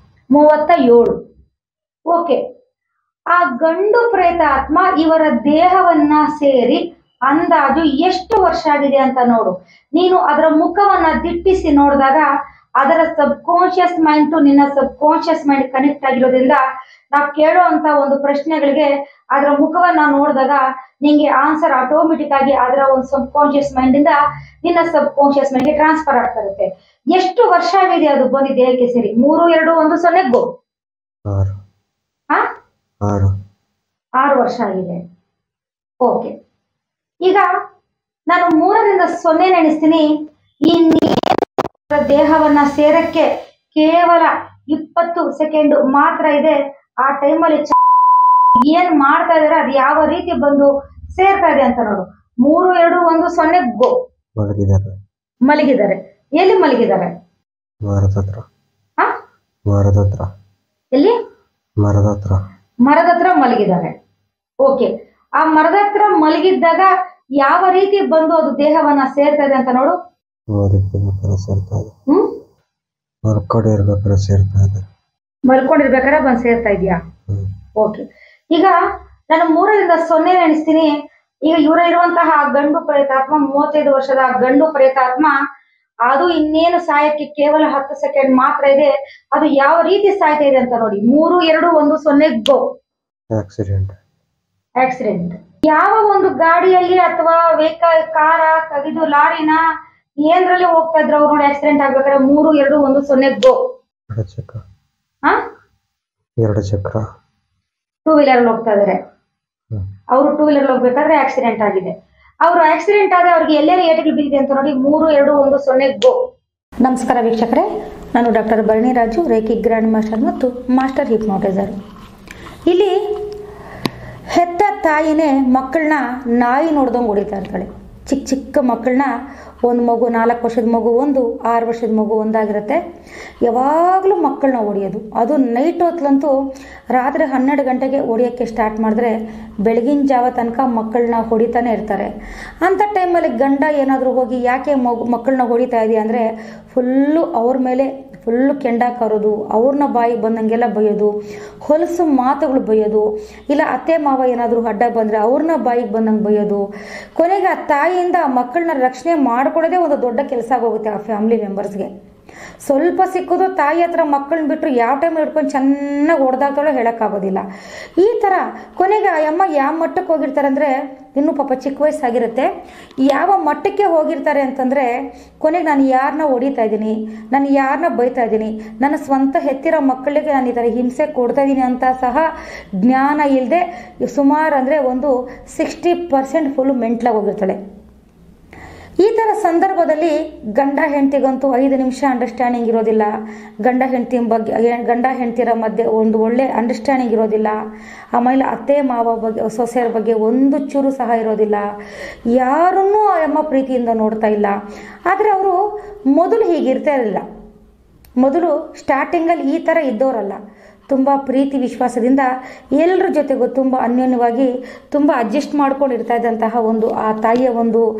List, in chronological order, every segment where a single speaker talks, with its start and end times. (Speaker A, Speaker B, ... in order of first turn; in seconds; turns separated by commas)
Speaker A: 0.3-1.2, Speaker A: 2.1-2.4, Speaker A: 3.3-12.3, Speaker A: 12.8-16.6, Speaker A: 17.1-30.5, Speaker B: 31.3-31.6, Speaker B: 33.0-33.3, Speaker A: 34.2-35.0, Speaker A: 36.0-36.3, Speaker A: 37.2-37.5, Speaker A: 38.3-40.1, Speaker A: 40.6-47.8, Speaker A: 48.5-54.0, Speaker B: 54.4-55.0, Speaker A: 55.5-57.1, Speaker B: 57.8-58.4, Speaker B: 59.7-60.3, Speaker B: 61.8-62.4, Speaker A: 62.9-63.9, Speaker A: 64.6-70.0, Speaker B: 70.5-71.9, Speaker A: 72.1-72.3, Speaker B: 73.2-74.8, Speaker A: 75.5-77.0, Speaker A: 77.8-78.8, Speaker A: 79.3-80.9, Speaker A: 81.5-85.4, Speaker A: 86.0-92.6, Speaker B: 93.3-94.0, Speaker A: 94.8-99.6, Speaker A: 100.2-103.6, Speaker B: 104.1-104.6, Speaker B: 106.4-107.0, Speaker A: 108.0-109.0, Speaker A: 110.1-116.2, Speaker A: 116.8-121.8, Speaker A: 122.7-123.0, Speaker A: 124.3-129.1, Speaker A: 129.6-132.8, Speaker A: 133.4-136.3, Speaker A: 136.9-142.1, Speaker A: 142.6-151.1, Speaker A: 151.6-156.6, Speaker A: 157.2-161.9, Speaker A: 162.6-167.4, Speaker A: 168.0-172.5, Speaker A: 173.1-174.9, Speaker A: 175.4-182.3, Speaker A: 182.8-187.6, Speaker A: 189.0-193.1, Speaker A: 193.6-197.6, Speaker A: 198.2-201.7, Speaker A: 202.3-204.6, Speaker A: 205.1-205.6, Speaker A: 206.1-207.2, Speaker A: 208.2-210.4, Speaker A: 210.9-217.8